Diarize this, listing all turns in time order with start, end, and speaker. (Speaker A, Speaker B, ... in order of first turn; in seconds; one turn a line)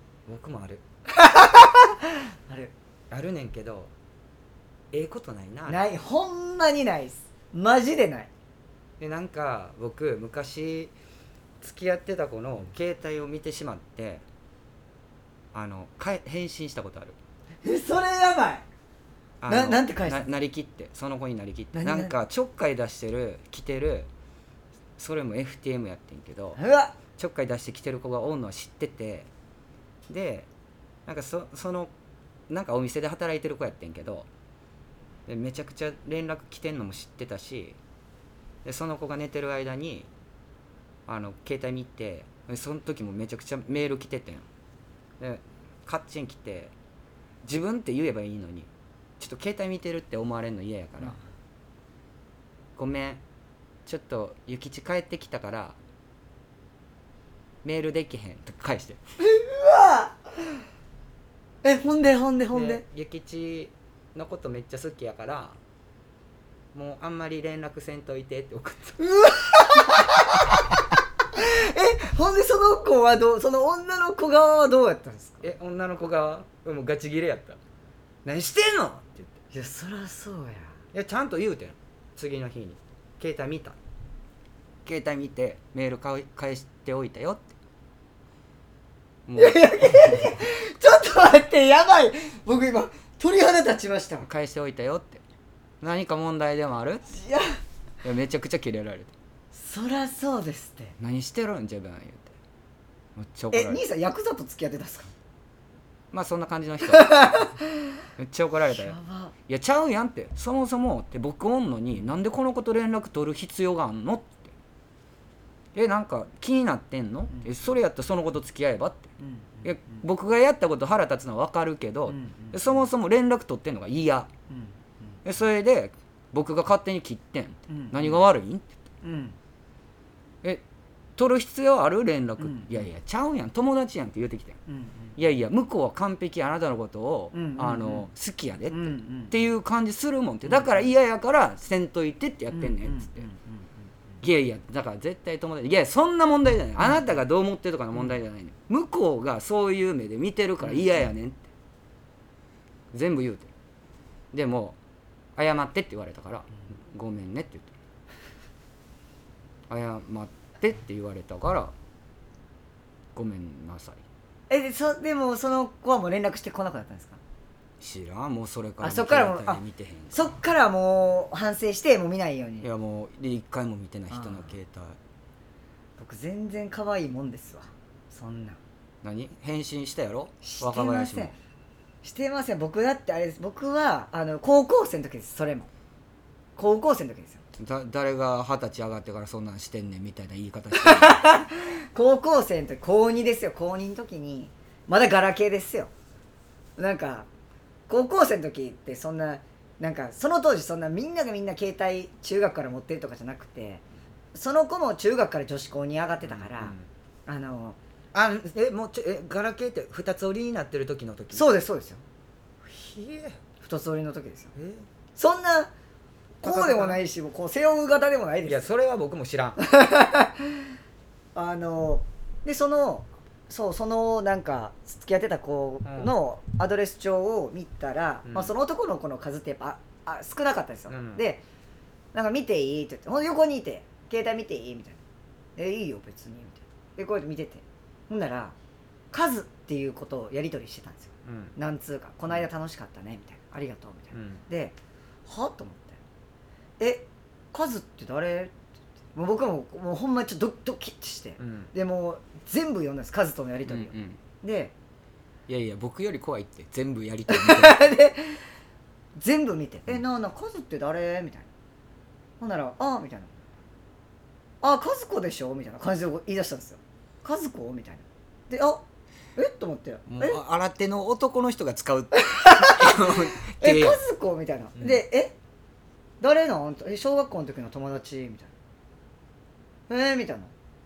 Speaker A: 0.3-0.8
Speaker B: 1.1-2.7
Speaker A: 3.1-3.9
Speaker A: 4.9-5.8
Speaker B: 5.7-8.3
Speaker A: 9.0-10.9
Speaker A: 11.6-14.2
Speaker A: 15.5-17.2
Speaker B: 17.6-18.6
Speaker A: 19.4-24.1
Speaker B: 19.5-20.2
Speaker B: 21.7-22.1
Speaker A: 25.0-26.6
Speaker B: 26.6-26.9
Speaker A: 27.2-29.3
Speaker A: 30.1-30.5
Speaker A: 31.1-31.9
Speaker A: 32.5-34.2
Speaker A: 35.3-37.8
Speaker A: 38.6-40.1
Speaker A: 41.1-44.5
Speaker A: 45.2-46.7
Speaker A: 47.4-51.2
Speaker A: 52.8-53.2
Speaker A: 53.9-55.8
Speaker A: 57.6-59.0
Speaker B: 59.2-60.6
Speaker B: 61.6-62.8
Speaker A: 62.5-65.6
Speaker A: 66.7-69.0
Speaker B: 69.0-70.8
Speaker B: 71.3-75.5
Speaker A: 75.4-77.6
Speaker A: 78.2-79.3
Speaker B: 79.5-80.7
Speaker A: 80.9-83.8
Speaker A: 84.8-87.5
Speaker A: 89.2-90.3
Speaker B: 89.4-94.3
Speaker A: 94.2-95.2
Speaker A: 95.8-97.0
Speaker B: 97.1-97.4
Speaker A: 98.0-99.1
Speaker B: 99.5-101.0
Speaker A: 101.0-102.3
Speaker A: 103.2-103.8
Speaker B: 103.5-105.1
Speaker A: 106.1-107.5
Speaker B: 106.9-107.6
Speaker A: 108.2-109.0
Speaker B: 108.7-109.3
Speaker A: 109.5-114.5
Speaker A: 115.7-119.1
Speaker B: 119.2-120.0
Speaker A: 119.6-124.3
Speaker B: 122.1-122.6
Speaker B: 124.5-124.7
Speaker A: 125.2-128.7
Speaker B: 127.7-128.0
Speaker B: 129.0-129.3
Speaker A: 131.2-134.6
Speaker B: 132.4-132.8
Speaker B: 134.7-135.1
Speaker A: 135.2-143.2
Speaker B: 137.3-138.1
Speaker B: 138.7-139.3
Speaker B: 142.5-143.7
Speaker A: 144.2-151.4
Speaker A: 152.9-153.5
Speaker A: 154.3-154.8
Speaker A: 155.3-157.7
Speaker A: 159.7-161.7
Speaker A: 163.1-164.0
Speaker B: 164.5-167.2
Speaker A: 167.8-170.3
Speaker B: 168.8-169.6
Speaker B: 170.1-172.7
Speaker A: 172.6-175.0
Speaker B: 174.1-174.5
Speaker B: 176.0-178.6
Speaker A: 179.0-181.3
Speaker B: 180.4-181.3
Speaker B: 182.0-185.7
Speaker B: 186.6-187.4
Speaker A: 187.6-191.2
Speaker B: 190.8-195.9
Speaker B: 196.8-197.3
Speaker B: 197.9-203.8
Speaker B: 204.3-206.7
Speaker A: 206.2-206.8
Speaker B: 207.3-207.8
Speaker A: 208.1-211.5
Speaker B: 211.3-212.0
Speaker A: 212.6-213.4
Speaker B: 213.6-214.5
Speaker A: 214.5-214.8
Speaker B: 215.2-215.7
Speaker A: 216.4-217.0
Speaker B: 216.4-218.7
Speaker A: 218.4-219.6
Speaker B: 219.6-220.6
Speaker B: 221.3-231.4
Speaker A: 225.8-226.1
Speaker A: 228.2-228.5
Speaker A: 230.9-231.2
Speaker B: 232.1-235.0
Speaker B: 235.6-238.5
Speaker B: 239.1-244.7
Speaker A: 241.2-241.5
Speaker A: 244.1-244.4
Speaker B: 245.2-246.0
Speaker B: 246.8-248.5
Speaker B: 249.1-254.7
Speaker A: 251.4-251.7
Speaker A: 253.7-254.2
Speaker A: 255.5-257.9
Speaker B: 257.3-258.4
Speaker B: 259.2-261.5
Speaker B: 262.4-263.4
Speaker B: 264.6-268.8
Speaker B: 269.4-270.4
Speaker A: 270.1-274.0
Speaker B: 272.2-275.3
Speaker A: 274.8-275.0
Speaker B: 276.2-278.5
Speaker B: 279.9-280.5